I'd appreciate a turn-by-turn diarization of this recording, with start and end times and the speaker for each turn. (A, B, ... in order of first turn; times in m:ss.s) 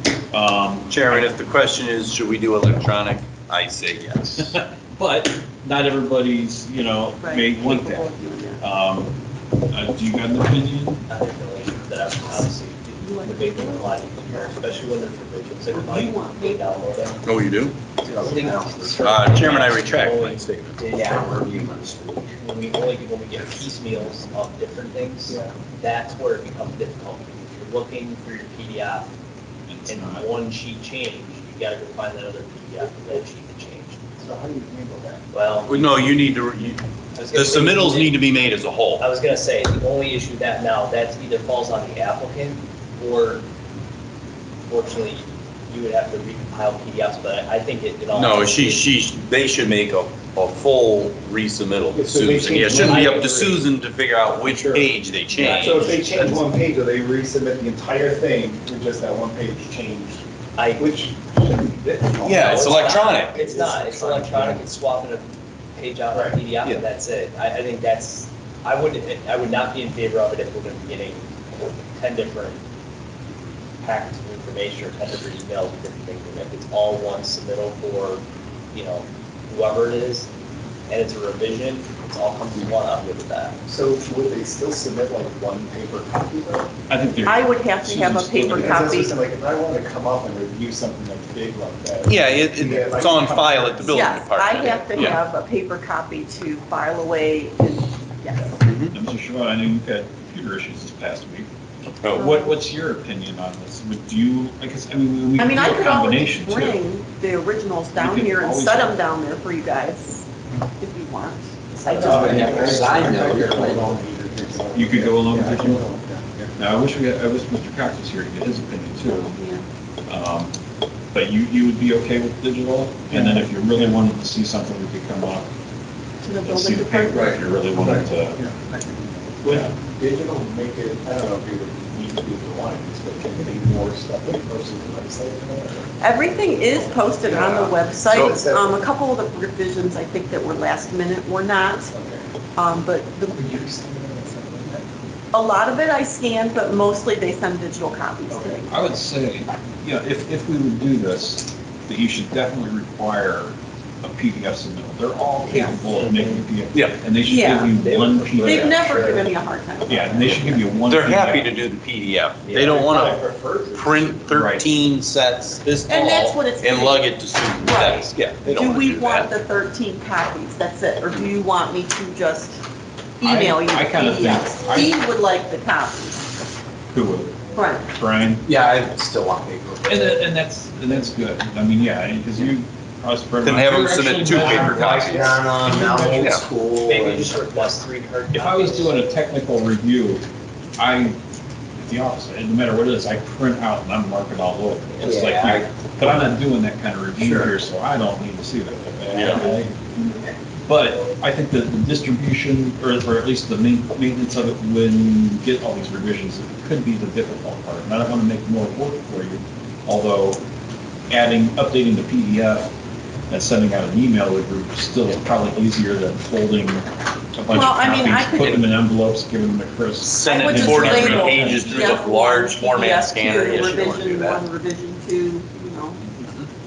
0:00.3-0:01.3 A
0:00.9-0:04.6 B
0:04.5-0:09.2 A
0:07.2-0:08.6 C
0:09.7-0:11.0 A
0:11.1-0:17.2 D
0:13.0-0:13.7 C
0:15.9-0:16.8 C
0:17.2-0:17.9 B
0:18.0-0:19.4 E
0:18.1-0:21.8 D
0:18.2-0:18.5 F
0:18.9-0:20.8 B
0:20.9-0:22.3 E
0:22.3-0:29.1 D
0:25.3-0:25.5 F
0:29.7-0:30.3 A
0:29.9-0:34.0 D
0:34.2-0:35.2 F
0:35.3-0:35.8 D
0:35.7-0:39.0 B
0:37.2-0:38.2 D
0:39.0-0:43.5 D
0:44.7-0:48.9 D
0:48.1-0:56.4 B
0:51.9-0:53.6 F
0:52.7-0:53.3 D
0:54.5-1:00.2 F
0:55.3-0:56.4 D
1:00.6-1:00.9 D
1:00.8-1:04.7 F
1:02.2-1:03.4 B
1:02.3-1:12.6 D
1:06.1-1:06.4 F
1:13.8-1:20.3 D
1:20.9-1:23.6 D
1:23.7-1:26.7 F
1:26.9-1:28.9 A
1:27.2-1:29.1 C
1:28.5-1:34.1 F
1:32.1-1:35.2 B
1:33.9-1:38.6 C
1:38.6-1:38.9 B
1:38.9-1:41.5 A
1:42.1-1:46.8 A
1:42.2-1:42.5 C
1:45.4-1:50.3 C
1:48.0-1:49.0 A
1:50.8-1:52.4 C
1:51.9-1:56.6 F
1:52.0-1:54.0 E
1:54.7-1:55.8 A
1:56.6-1:59.4 A
1:59.0-1:59.6 C
2:00.1-2:00.5 A
2:01.1-2:05.5 A
2:03.1-2:03.5 F
2:06.2-2:07.6 C
2:06.4-2:08.4 A
2:07.7-2:15.9 F
2:16.0-2:21.9 C
2:16.6-2:18.8 F
2:18.1-2:18.4 B
2:21.9-2:22.2 F
2:22.6-2:23.4 C
2:23.3-2:24.9 F
2:25.3-2:28.8 C
2:28.3-2:38.9 A
2:35.5-2:35.8 C
2:36.7-2:37.1 B
2:37.2-2:37.8 C
2:37.7-2:39.3 D
2:38.4-2:40.3 C
2:39.9-2:41.6 A
2:40.8-2:49.3 B
2:42.6-2:44.2 F
2:44.3-2:44.8 A
2:45.9-2:52.6 C
2:53.2-2:56.3 C
2:53.2-2:55.0 A
2:56.9-2:58.5 A
2:57.6-2:57.9 C
2:58.5-3:00.2 E
2:59.9-3:06.4 A
3:03.4-3:05.5 B
3:04.3-3:07.6 E
3:06.2-3:06.4 B
3:06.8-3:09.0 D
3:08.3-3:10.3 A
3:10.8-3:11.2 A
3:11.8-3:19.7 A
3:15.0-3:15.7 E
3:17.2-3:17.5 E
3:20.6-3:30.4 A
3:31.1-3:32.7 A
3:33.3-3:42.0 A
3:37.5-3:38.6 C
3:38.4-3:38.7 B
3:40.0-3:44.4 B
3:40.3-3:46.0 C
3:46.1-3:46.5 B